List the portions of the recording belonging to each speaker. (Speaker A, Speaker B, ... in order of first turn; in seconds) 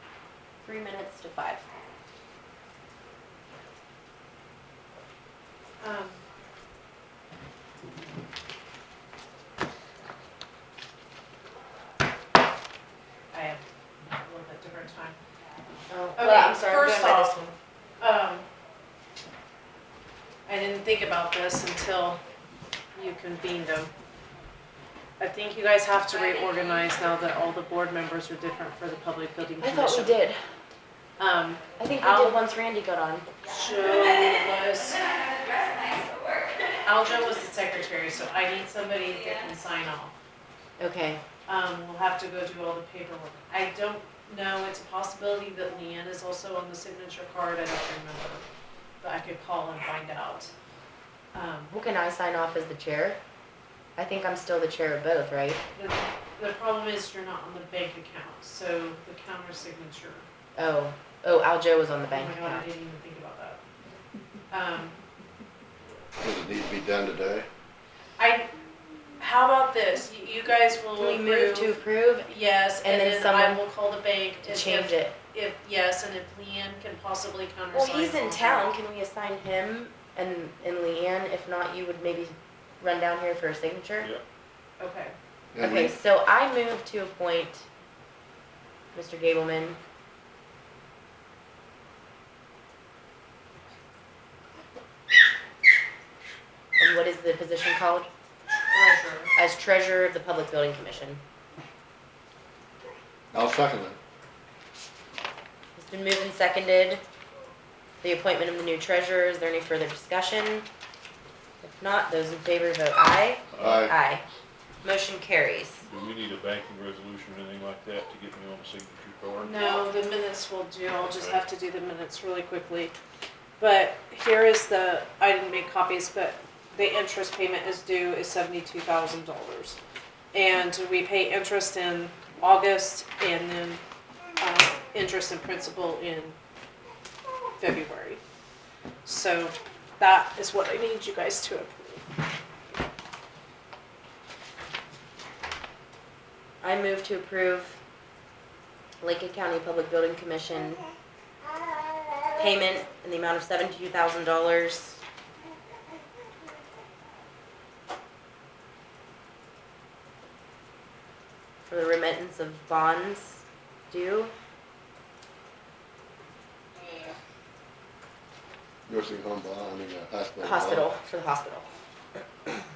Speaker A: 0.6-1.6, 15.9-17.5, 29.6-30.4, 31.8-33.3, 40.8-41.2, 51.7-53.2, 54.0-55.6, 60.6-62.7, 71.0-72.3, 72.8-73.6, 74.4-75.1, 77.7-84.1, 85.6-87.7, 88.9-89.8, 96.8-98.1, 99.3-101.2, 105.8-107.0, 108.0-110.7, 111.6-114.2, 114.8-115.8, 146.6-147.8, 149.0-150.8, 152.4-155.0, 161.7-164.3, 170.4-171.7
Speaker B: 5.8-6.2, 13.3-13.6, 14.2-15.2, 16.2-18.5, 20.5-22.2, 22.9-23.9, 25.2-30.2, 31.2-32.4, 33.4-35.1, 36.8-40.1, 41.5-48.4, 49.0-50.5, 51.3-51.7, 55.8-60.3, 62.1-63.6, 64.5-65.0, 68.2-68.5, 69.2-78.7, 84.8-85.1, 98.7-99.3, 119.4-122.9, 123.6-129.8, 130.3-133.8, 134.4-136.4, 137.6-138.2, 139.1-142.0
Speaker C: 66.2-67.5, 85.5-86.0, 103.3-104.0, 113.6-113.9, 168.9-170.9
Speaker D: 113.5-113.9, 115.9-119.8, 121.1-121.4